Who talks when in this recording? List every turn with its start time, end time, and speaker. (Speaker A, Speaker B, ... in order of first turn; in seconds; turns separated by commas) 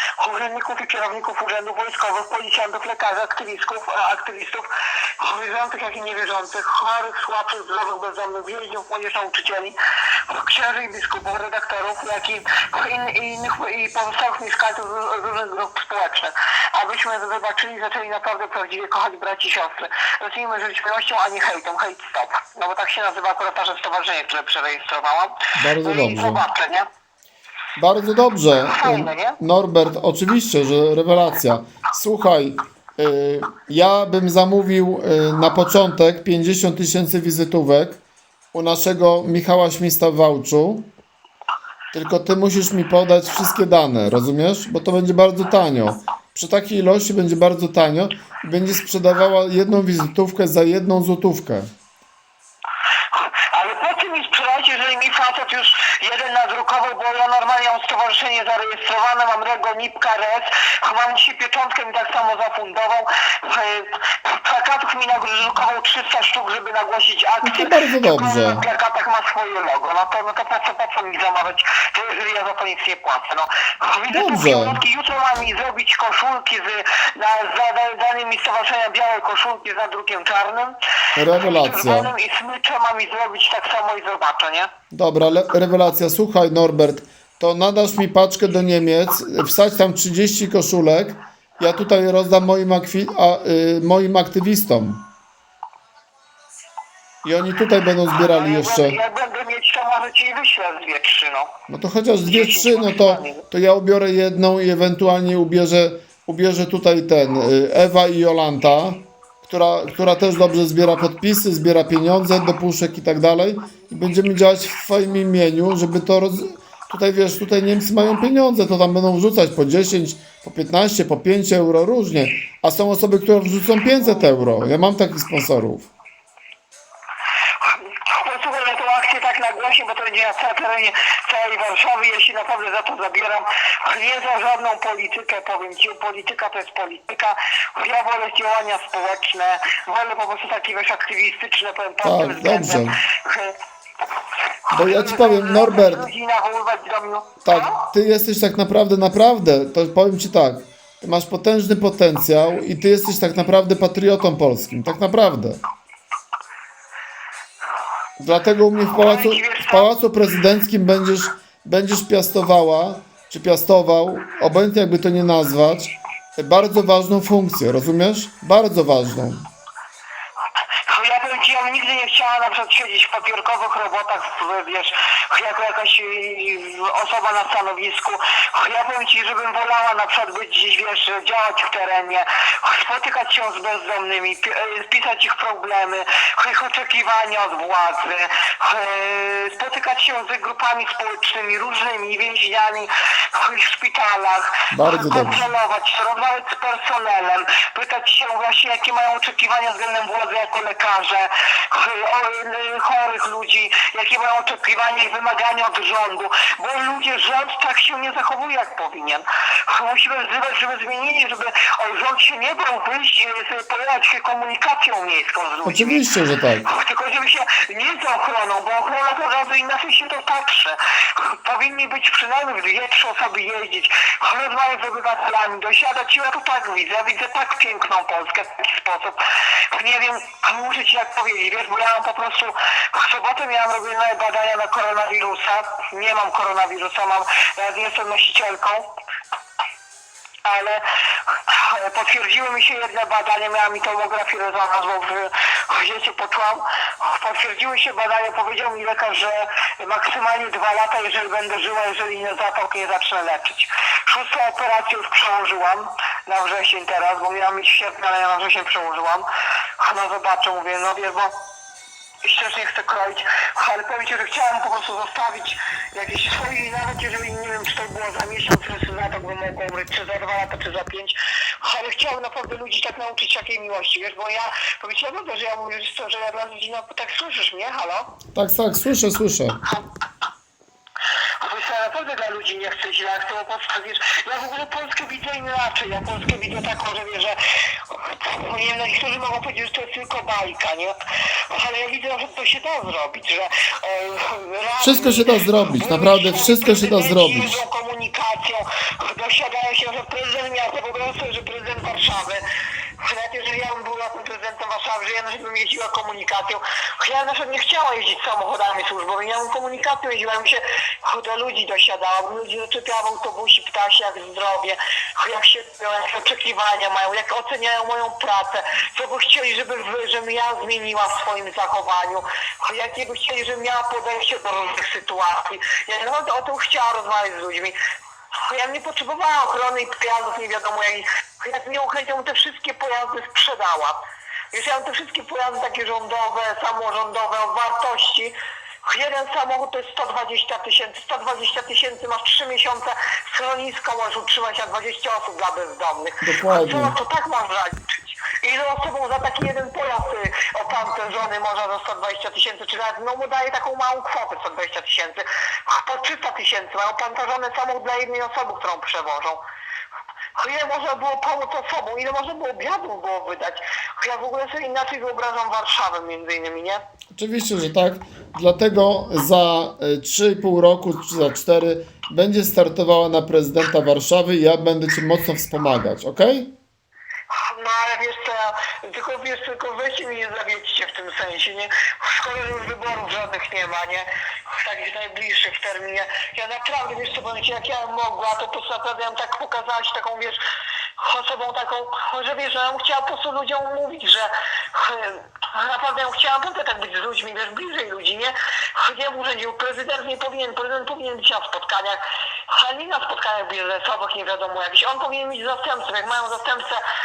Speaker A: 0.2-4.7, Speaker A: 5.2-9.8, Speaker A: 10.3-26.9, Speaker B: 25.6-26.4, Speaker B: 27.8-38.0, Speaker A: 28.6-29.4, Speaker B: 38.5-40.9, Speaker B: 41.9-51.7, Speaker A: 53.1-80.8, Speaker B: 67.4-68.6, Speaker B: 74.1-74.8, Speaker B: 81.2-82.1, Speaker A: 81.3-84.7, Speaker B: 84.9-95.1, Speaker B: 97.2-99.0, Speaker A: 98.1-101.5, Speaker B: 101.7-125.9, Speaker A: 102.2-103.4, Speaker A: 127.6-143.6, Speaker B: 142.0-143.0, Speaker A: 144.7-147.9, Speaker B: 144.7-146.1, Speaker B: 147.4-155.6, Speaker B: 158.2-169.5, Speaker A: 158.9-159.9, Speaker A: 170.8-216.0, Speaker B: 194.7-195.4, Speaker B: 215.6-216.7, Speaker A: 216.6-238.9, Speaker A: 240.4-259.3, Speaker A: 259.8-261.3, Speaker A: 262.2-278.1, Speaker B: 278.3-279.6, Speaker A: 281.4-290.9, Speaker A: 291.5-302.4, Speaker B: 294.8-297.6, Speaker A: 303.0-327.8, Speaker A: 328.4-334.0, Speaker A: 334.5-338.3, Speaker A: 338.8-359.4, Speaker B: 346.2-346.9, Speaker A: 360.4-366.8, Speaker B: 367.1-376.5, Speaker A: 377.3-384.1, Speaker A: 384.6-390.4, Speaker A: 391.0-406.8